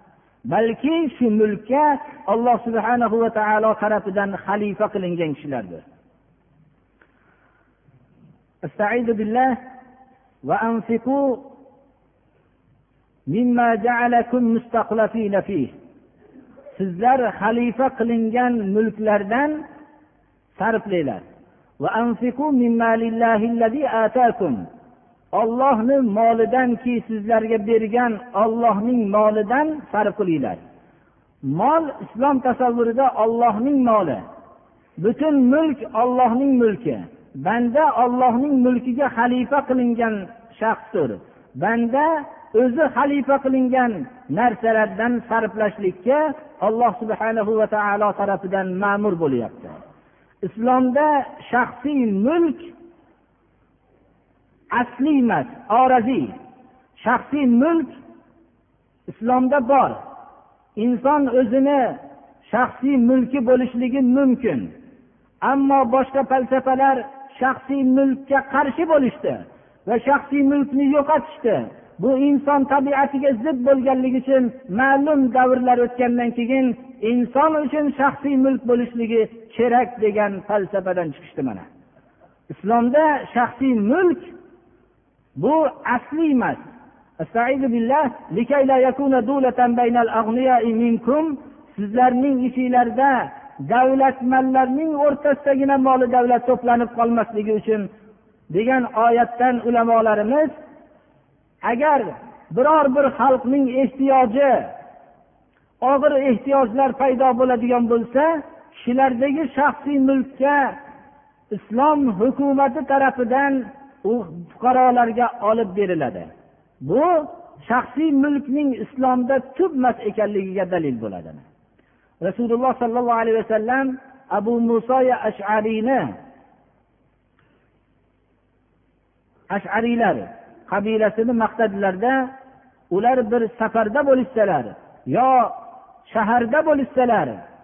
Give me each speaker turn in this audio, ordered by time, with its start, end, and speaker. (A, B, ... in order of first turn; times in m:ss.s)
0:00.5-0:05.8 A
0:08.6-0:09.6 A
0:10.4-0:11.4 A
0:13.3-0:15.7 A
0:16.7-0:19.6 A
0:20.6-0:21.2 A
0:21.8-0:24.6 A
0:25.3-0:30.6 A
0:31.4-0:34.2 A
0:35.0-0:49.8 A
0:50.4-0:52.7 A
0:54.7-0:56.3 A
0:57.0-0:58.0 A
0:59.1-1:00.0 A
1:00.8-1:04.7 A
1:05.4-1:21.6 A
1:22.5-1:24.3 A
1:25.4-1:26.6 A
1:27.2-1:37.9 A
1:38.5-1:40.5 A
1:41.6-1:44.7 A
1:45.8-1:50.7 A
1:51.5-1:56.3 A
1:56.8-2:01.4 A
2:02.2-2:06.1 A
2:09.5-2:12.2 A
2:12.9-2:15.5 A
2:16.0-2:17.4 A